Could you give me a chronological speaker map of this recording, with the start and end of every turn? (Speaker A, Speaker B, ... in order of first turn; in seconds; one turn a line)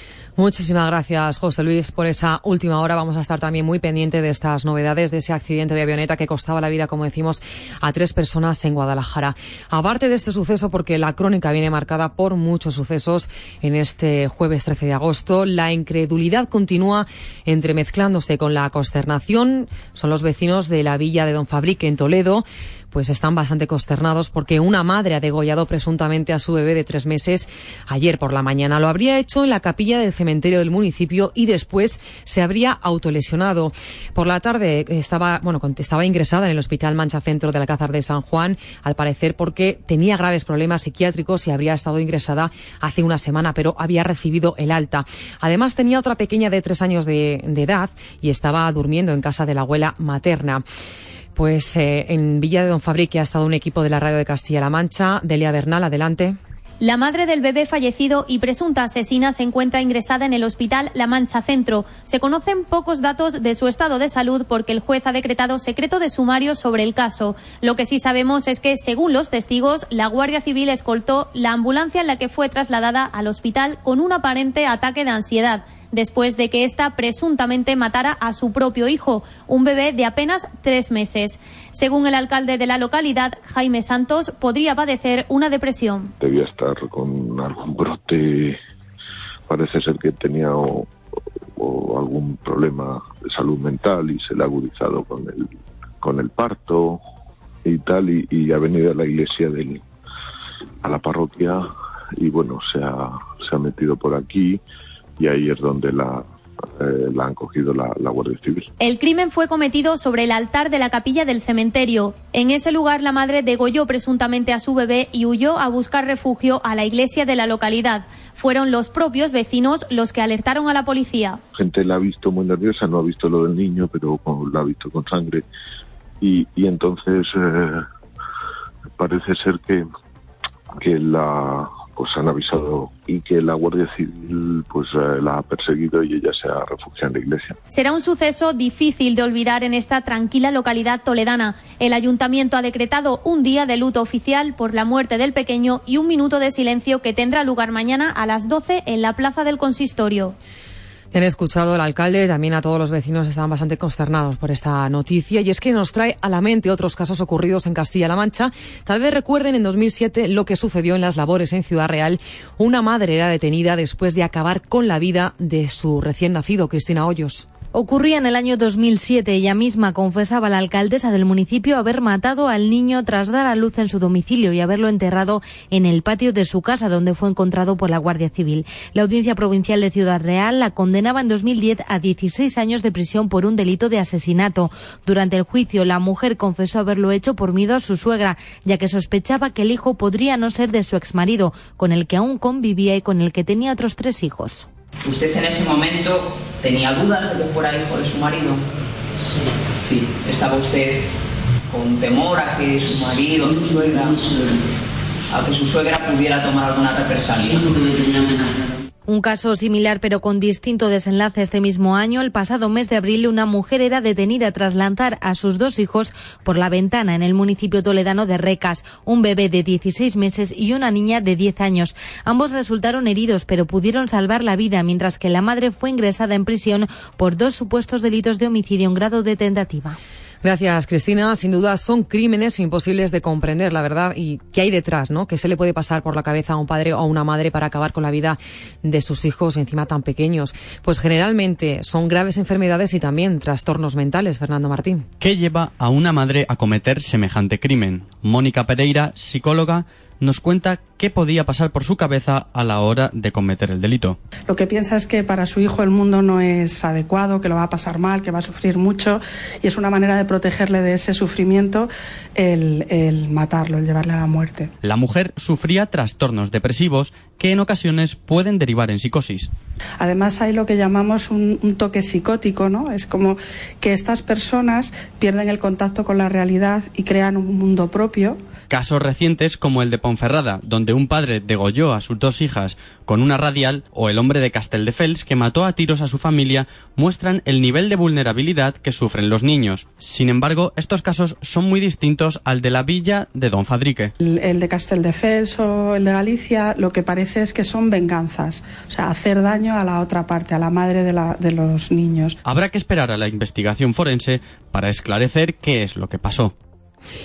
Speaker A: 0.4-50.6
Speaker A: 51.4-56.4
Speaker B: 56.8-86.1
Speaker C: 86.2-88.6
Speaker C: 89.5-90.9
Speaker C: 91.6-95.5
Speaker C: 96.0-97.0
Speaker C: 97.6-99.8
Speaker C: 100.8-101.7
Speaker C: 102.2-104.6
Speaker C: 105.2-108.7
Speaker B: 108.8-121.4
Speaker C: 121.5-125.4
Speaker C: 126.2-127.8
Speaker C: 129.0-129.8
Speaker C: 130.8-137.6
Speaker B: 137.7-150.3
Speaker A: 151.1-167.5
Speaker D: 167.7-194.7
Speaker E: 195.0-198.6
Speaker E: 199.3-201.1
Speaker E: 201.7-204.7
Speaker E: 205.3-208.7
Speaker D: 209.1-230.0
Speaker A: 230.4-245.1
Speaker F: 245.2-254.2
Speaker G: 254.5-264.7
Speaker F: 264.8-269.5
Speaker G: 270.0-278.4
Speaker F: 278.7-294.1
Speaker G: 294.2-302.4
Speaker F: 302.4-306.5